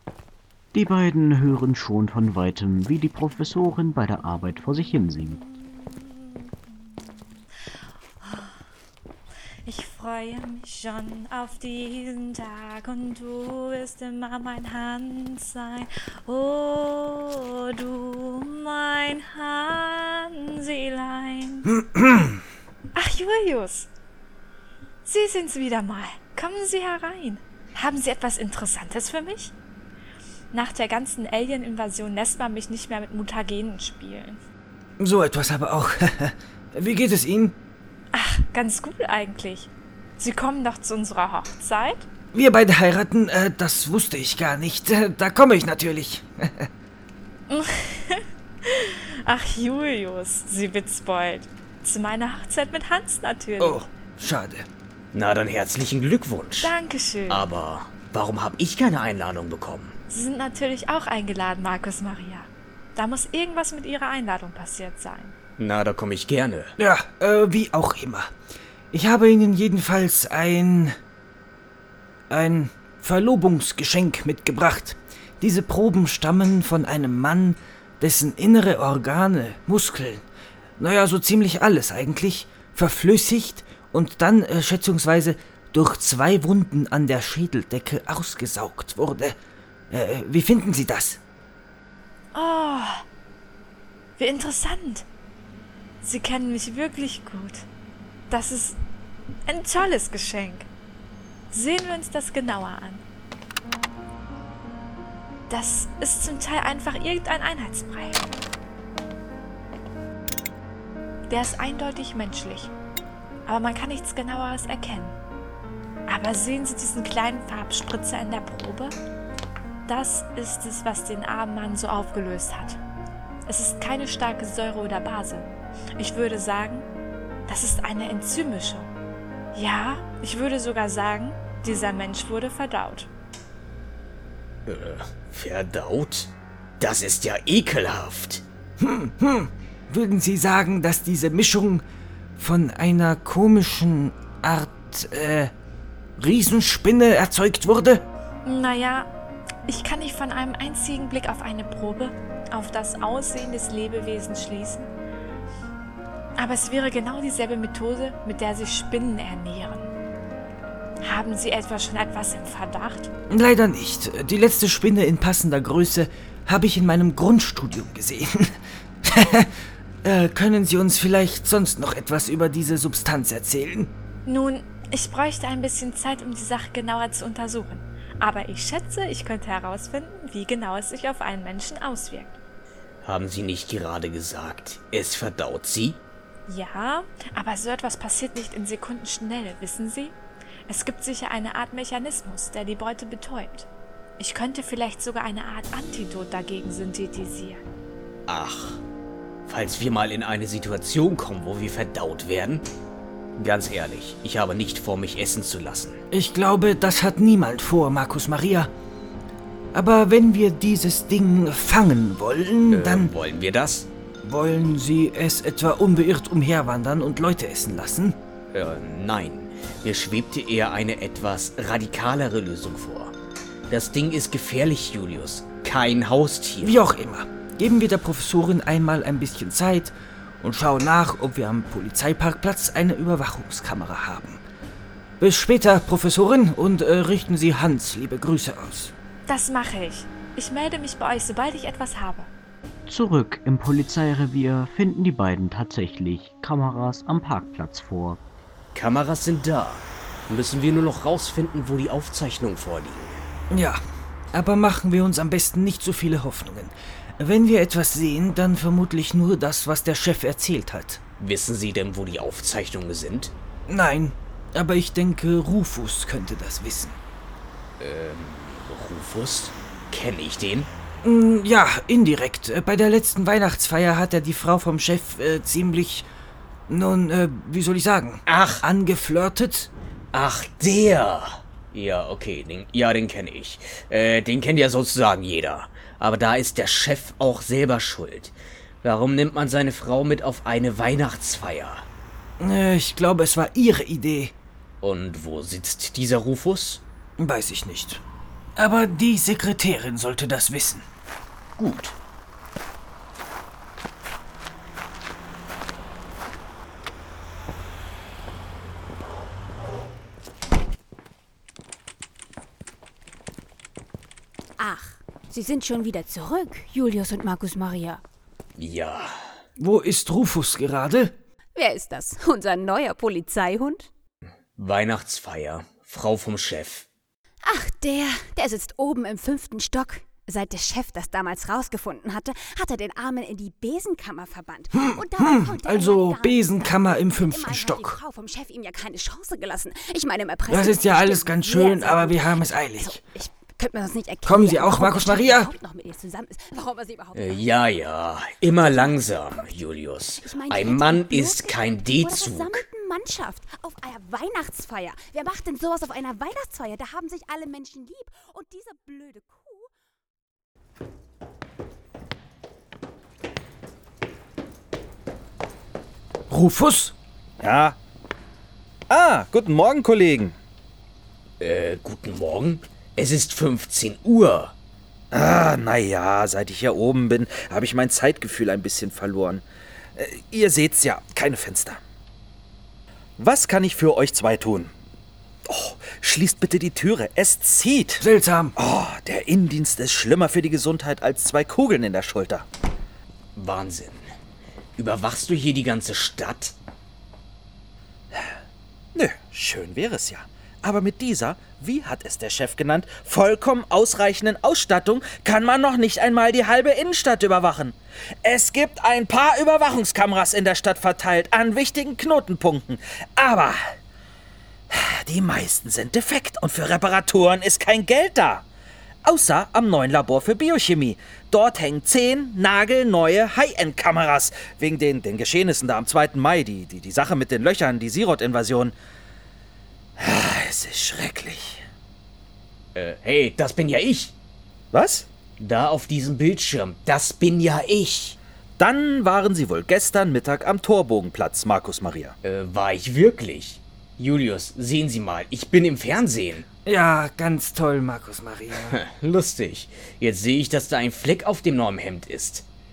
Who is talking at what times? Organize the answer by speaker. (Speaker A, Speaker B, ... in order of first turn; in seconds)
Speaker A: 0.7-5.4, 242.9-248.2
Speaker B: 5.7-6.4, 8.2-8.6, 9.7-21.7, 22.9-23.9, 25.1-29.5, 30.5-34.4, 38.1-42.1, 47.5-53.9, 56.6-57.5, 60.1-65.3, 92.3-93.0, 94.2-95.0, 96.0-97.7, 98.3-98.8, 99.5-100.7, 101.5-103.0, 105.5-108.3, 111.3-112.7, 113.5-115.2, 116.1-118.9, 119.9-122.8, 123.5-126.9, 127.5-128.9, 129.6-133.1, 148.4-149.1, 149.7-154.9, 156.4-159.9, 161.1-163.1, 174.3-182.4, 186.5-190.2, 190.7-193.7, 194.2-197.6, 239.3-242.3
Speaker C: 21.7-22.4, 35.0-37.6, 42.3-46.7, 53.6-54.7, 66.8-68.3, 68.9-71.0, 72.3-80.2, 80.8-89.4, 89.9-91.2, 138.8-141.8, 142.4-145.5, 146.2-148.1, 163.3-169.5, 170.0-173.9, 206.1-208.7, 209.7-213.1, 214.2-218.2, 226.6-234.4, 235.2-238.9, 253.5-253.8, 254.3-261.0, 263.7-267.0, 271.0-276.1, 276.7-279.7, 292.4-294.3, 297.2-298.0, 298.6-300.9, 319.6-321.1, 334.7-338.0, 340.5-343.0, 344.2-345.5, 366.3-366.9, 388.0-388.6, 446.6-448.8
Speaker D: 55.1-56.7, 57.3-60.0, 65.6-66.8, 134.7-138.4, 183.0-186.0, 198.3-198.8, 199.5-202.7, 203.4-206.0, 212.7-213.9, 218.5-223.2, 223.7-226.8, 248.7-253.2, 261.2-263.3, 267.8-270.7, 278.3-278.6, 280.1-291.9, 294.8-296.8, 301.6-302.0, 318.6-319.4, 324.6-326.9, 347.1-352.7, 371.4-374.5, 393.4-394.1, 394.8-396.6, 432.8-434.1, 435.4-438.2, 442.2-446.5, 448.7-452.4
Speaker E: 314.6-318.0, 321.6-323.9, 327.4-347.4, 348.6-349.5, 350.2-359.7
Speaker F: 367.4-367.8, 368.9-370.4, 375.1-379.4, 380.0-381.8, 383.2-384.7, 385.5-388.0, 388.6-392.5, 398.9-413.7, 414.7-418.4, 419.1-428.8, 430.0-431.6, 434.7-435.1, 438.6-442.1